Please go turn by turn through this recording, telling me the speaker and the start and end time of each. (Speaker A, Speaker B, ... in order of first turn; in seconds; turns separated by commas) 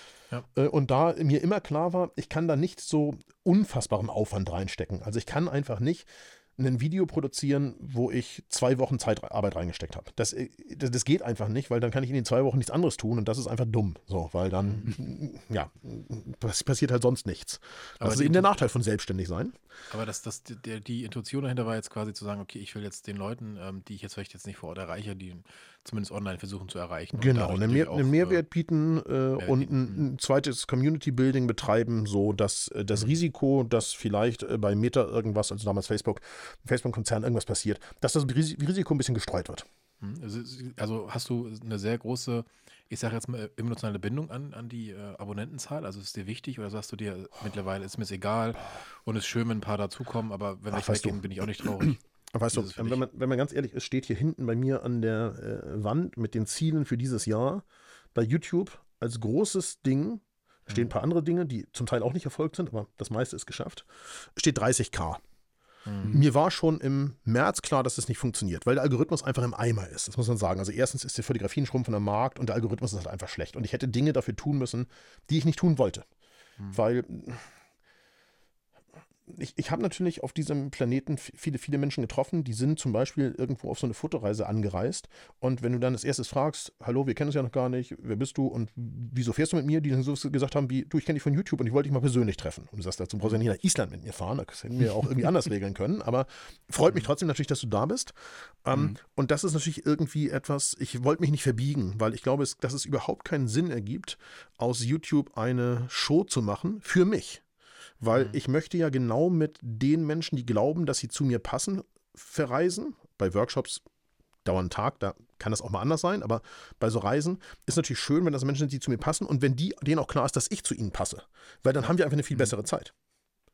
Speaker A: 0.5-19.6, Speaker B: 18.0-18.6, Speaker B: 19.9-28.4, Speaker A: 27.1-39.7, Speaker B: 29.4-30.1, Speaker B: 40.0-52.0, Speaker A: 50.7-65.2, Speaker B: 52.5-53.0, Speaker B: 65.9-66.2, Speaker A: 66.1-76.0, Speaker A: 76.7-77.5, Speaker A: 79.3-107.4, Speaker A: 108.0-113.8, Speaker A: 114.5-122.9